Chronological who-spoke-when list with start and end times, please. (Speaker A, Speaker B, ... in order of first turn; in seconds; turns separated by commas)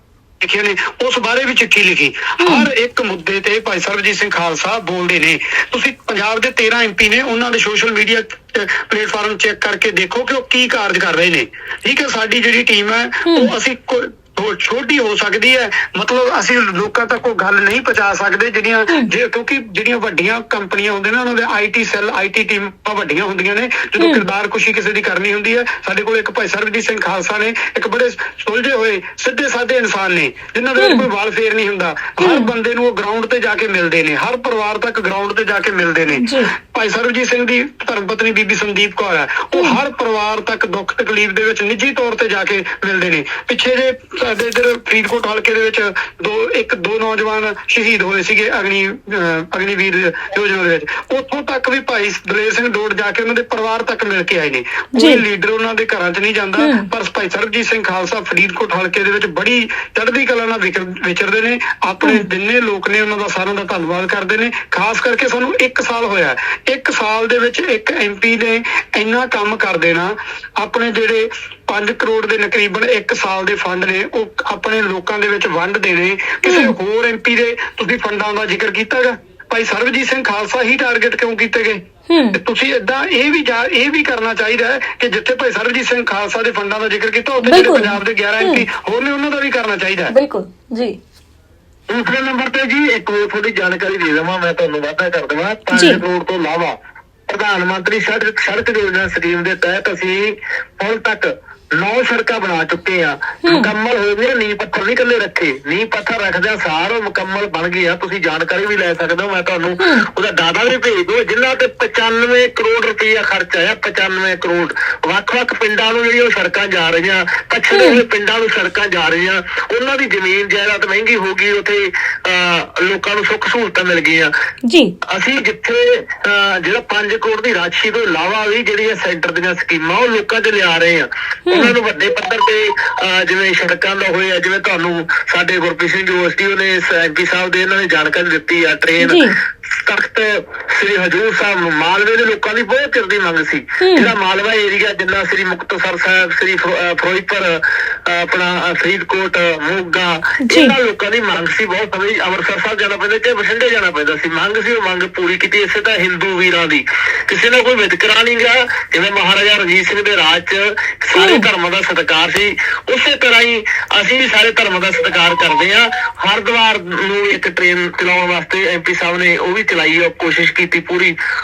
Speaker A: 0.4-81.8, Speaker B: 2.4-2.7, Speaker B: 30.8-31.1, Speaker B: 32.2-32.5, Speaker B: 36.2-36.5, Speaker B: 55.0-55.2, Speaker B: 56.6-56.9, Speaker B: 76.4-76.7, Speaker B: 82.1-82.4, Speaker A: 82.3-90.1, Speaker B: 87.4-88.7, Speaker B: 90.1-91.0, Speaker C: 91.9-96.8, Speaker B: 95.7-96.0, Speaker C: 97.3-124.3, Speaker B: 103.5-103.7, Speaker B: 109.8-110.1, Speaker B: 117.7-118.0, Speaker B: 124.7-124.9, Speaker C: 125.1-171.2, Speaker B: 131.5-131.8, Speaker B: 139.0-139.3, Speaker B: 143.8-144.1, Speaker B: 150.5-150.8, Speaker B: 161.2-161.5